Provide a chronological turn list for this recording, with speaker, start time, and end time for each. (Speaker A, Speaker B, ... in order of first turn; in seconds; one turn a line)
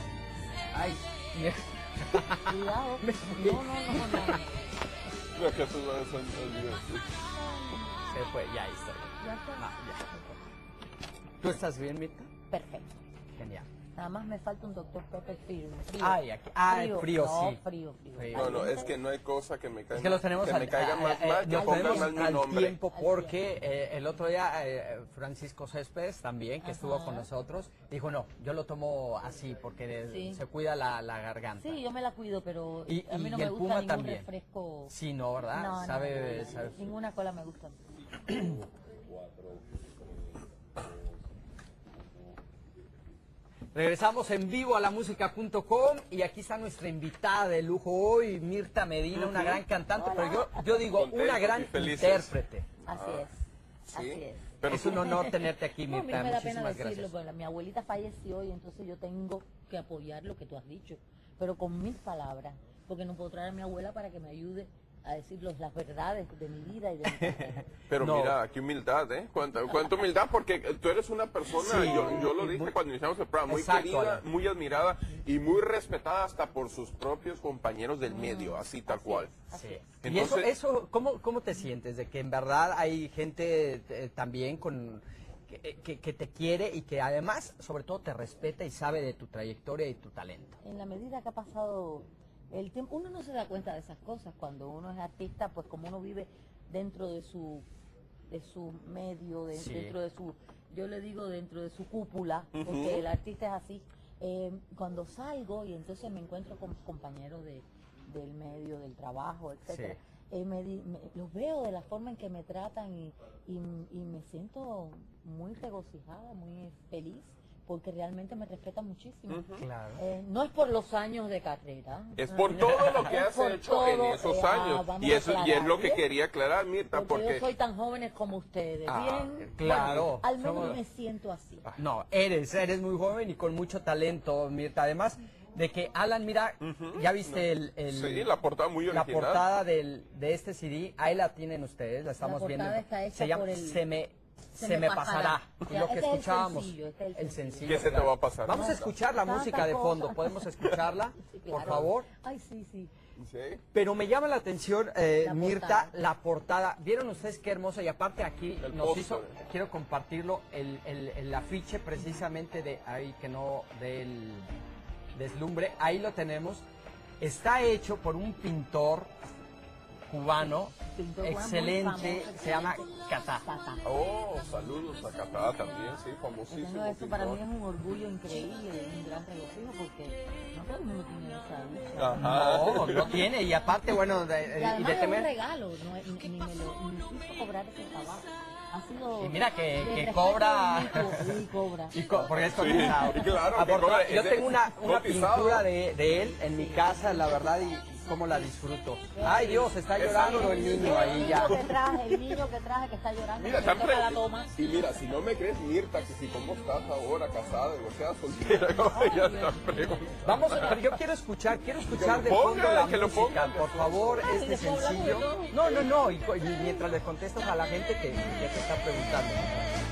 Speaker A: 0.7-4.4
Speaker B: 2.5-4.7
Speaker C: 5.3-7.1
Speaker B: 7.5-8.0
Speaker A: 8.1-10.1
Speaker B: 9.2-10.4
Speaker A: 11.4-12.3
Speaker B: 12.5-13.0
Speaker A: 13.3-13.7
Speaker B: 14.0-18.9
Speaker A: 16.0-17.6
Speaker A: 18.1-18.7
Speaker C: 18.3-22.8
Speaker A: 19.9-31.8
Speaker B: 21.5-22.2
Speaker B: 22.9-23.4
Speaker B: 26.6-27.3
Speaker B: 30.1-30.4
Speaker B: 31.6-34.9
Speaker A: 32.9-34.3
Speaker A: 34.9-36.8
Speaker B: 35.5-37.8
Speaker A: 43.7-52.7
Speaker C: 49.2-49.6
Speaker B: 49.9-50.8
Speaker C: 50.8-52.3
Speaker B: 52.9-53.4
Speaker C: 52.9-53.3
Speaker C: 53.9-55.1
Speaker B: 53.9-67.6
Speaker A: 54.7-57.1
Speaker A: 67.2-68.4
Speaker C: 67.9-79.3
Speaker A: 71.5-72.7
Speaker A: 73.5-74.2
Speaker B: 78.1-80.0
Speaker A: 79.5-90.6
Speaker C: 80.0-80.5
Speaker B: 90.6-97.7
Speaker B: 98.3-126.0
Speaker A: 99.5-100.0
Speaker C: 102.5-103.0
Speaker A: 109.7-110.0
Speaker C: 119.3-119.7
Speaker A: 119.6-120.0
Speaker C: 122.2-127.5
Speaker A: 122.5-123.1
Speaker B: 126.9-131.7
Speaker C: 128.9-130.8
Speaker A: 129.6-130.8
Speaker A: 131.8-138.3
Speaker C: 136.6-139.5
Speaker A: 138.9-152.1
Speaker B: 142.2-143.9
Speaker B: 144.6-147.7
Speaker C: 147.6-148.8
Speaker B: 148.5-152.9
Speaker C: 153.2-153.6
Speaker A: 153.7-164.5
Speaker B: 155.2-155.9
Speaker C: 158.6-159.4
Speaker A: 165.1-166.7
Speaker A: 167.2-169.1
Speaker A: 170.1-173.4
Speaker B: 170.7-173.8
Speaker C: 173.8-177.4
Speaker B: 176.5-182.6
Speaker C: 182.0-183.2
Speaker A: 182.2-185.3
Speaker B: 184.5-192.0
Speaker A: 189.2-191.4
Speaker A: 191.9-201.6
Speaker C: 192.4-195.7
Speaker B: 196.5-197.4
Speaker B: 199.1-204.6
Speaker C: 200.0-201.6
Speaker C: 203.4-210.8
Speaker B: 208.8-210.1
Speaker A: 210.2-219.7
Speaker C: 211.9-214.3
Speaker B: 214.3-215.8